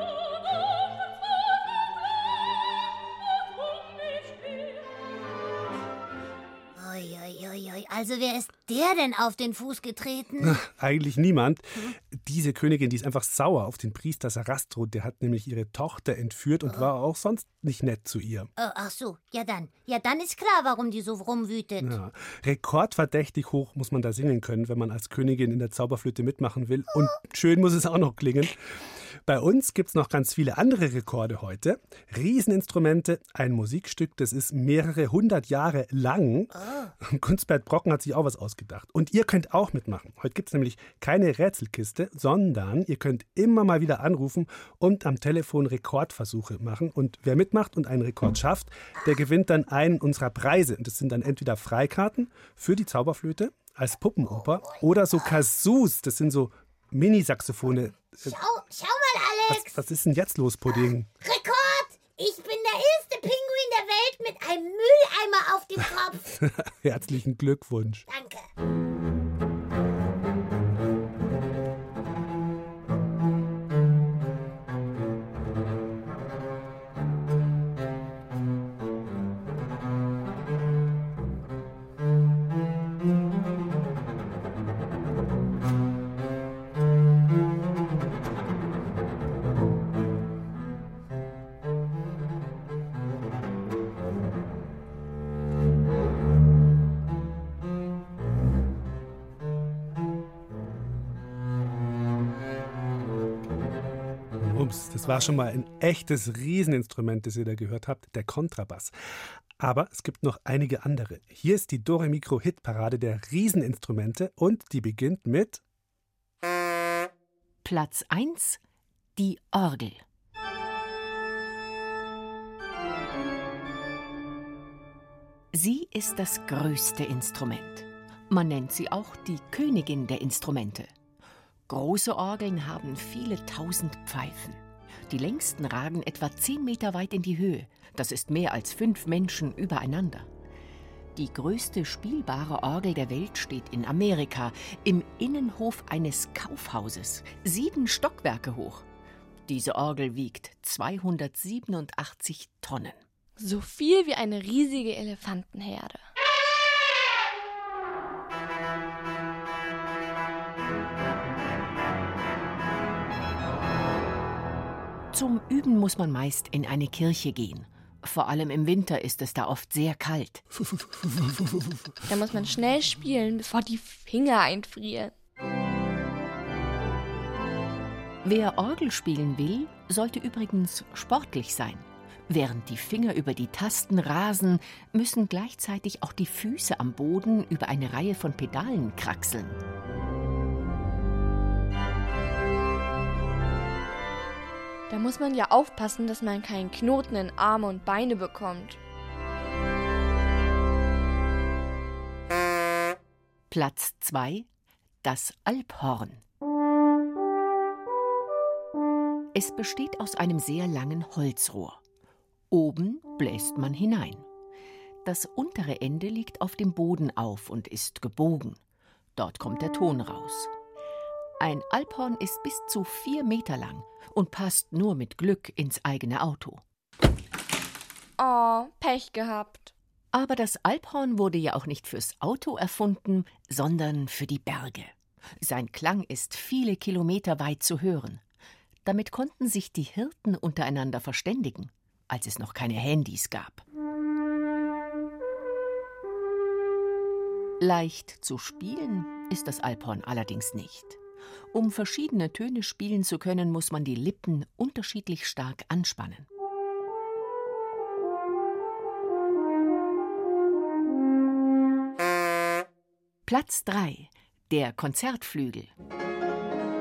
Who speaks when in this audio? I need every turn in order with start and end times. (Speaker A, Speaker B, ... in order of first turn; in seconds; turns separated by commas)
Speaker A: 6.8-10.6, Speaker B: 10.4-18.5, Speaker A: 18.6-22.0, Speaker B: 21.8-58.3, Speaker A: 58.2-59.7, Speaker B: 59.5-61.1, Speaker A: 60.7-66.3, Speaker B: 66.4-68.0, Speaker A: 68.1-68.4, Speaker B: 104.4-108.9, Speaker B: 109.6-115.6, Speaker C: 117.6-118.6, Speaker C: 119.2-120.0, Speaker C: 125.5-130.9, Speaker C: 131.7-140.3, Speaker C: 141.1-148.9, Speaker C: 149.5-153.0, Speaker D: 153.4-156.1, Speaker C: 165.1-170.4, Speaker D: 172.0-175.1, Speaker C: 178.2-189.6, Speaker D: 194.9-198.8, Speaker C: 203.5-204.5, Speaker C: 205.0-206.2, Speaker C: 209.3-211.8, Speaker C: 212.5-214.2, Speaker C: 215.0-218.6, Speaker C: 219.2-220.5, Speaker C: 221.4-226.6, Speaker D: 228.2-229.7, Speaker C: 230.1-238.2, Speaker C: 238.8-243.6, Speaker C: 247.6-251.0, Speaker C: 251.5-256.3, Speaker C: 263.2-265.7